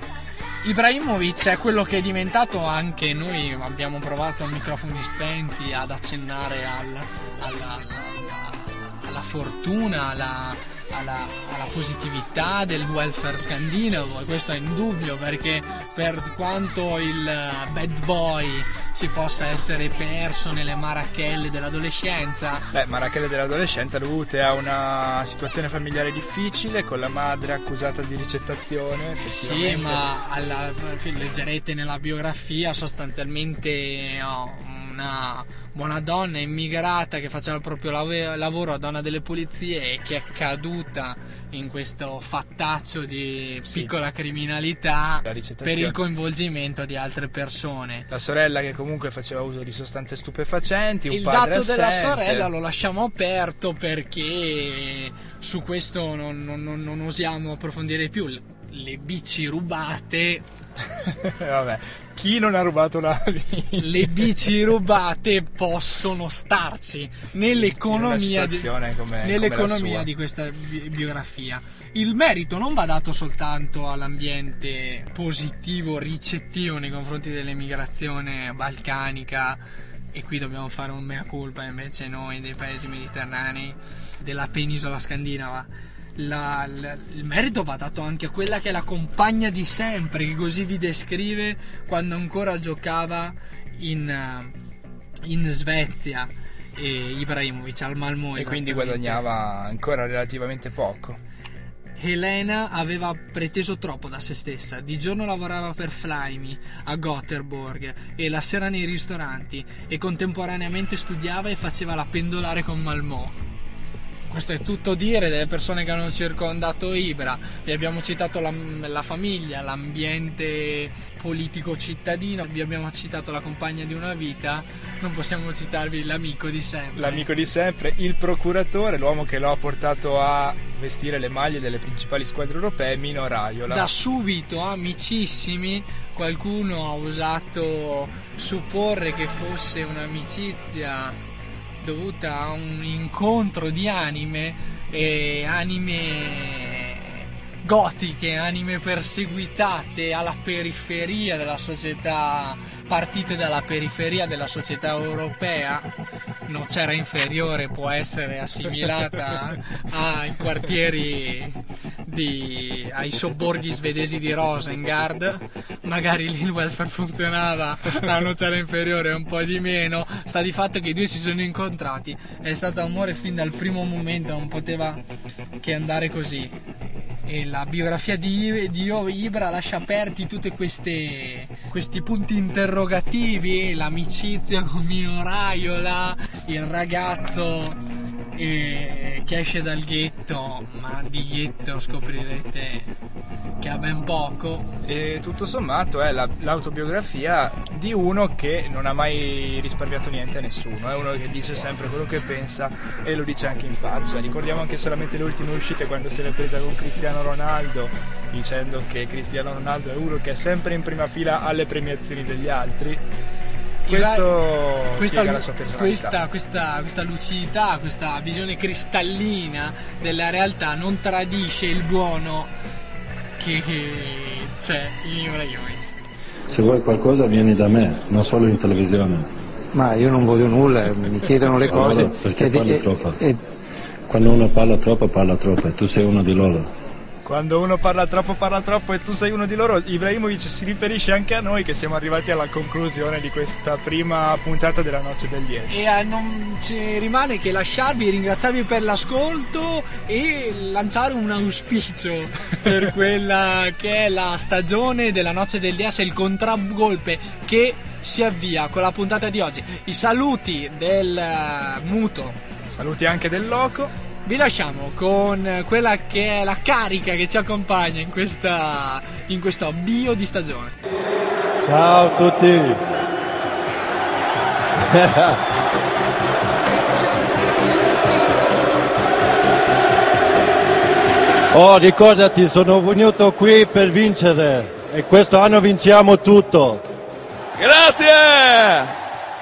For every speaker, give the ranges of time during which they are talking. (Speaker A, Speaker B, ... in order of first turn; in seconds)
Speaker A: 0.6-22.7, 29.2-48.1, 51.1-60.4, 63.8-68.7, 69.2-79.6, 80.1-94.5, 95.2-99.2, 102.0-113.4, 114.3-127.3, 133.7-141.2, 141.8-155.9, 156.5-175.0, 175.6-187.8, 188.3-192.9, 193.6-194.7, 213.9-222.5, 223.4-225.9, 245.7-262.4, 264.2-270.7
Speaker B: 22.7-30.0, 45.2-46.0, 48.1-52.5, 61.1-64.3, 67.5-70.1, 98.4-101.2, 126.9-133.9, 194.8-213.0, 213.9-216.2, 237.2-245.9, 262.7-263.9
Speaker C: 226.5-229.3, 231.6-233.2, 234.1-236.7, 287.6-288.9
Speaker D: 229.7-233.4
Speaker E: 271.6-272.8, 281.6-286.8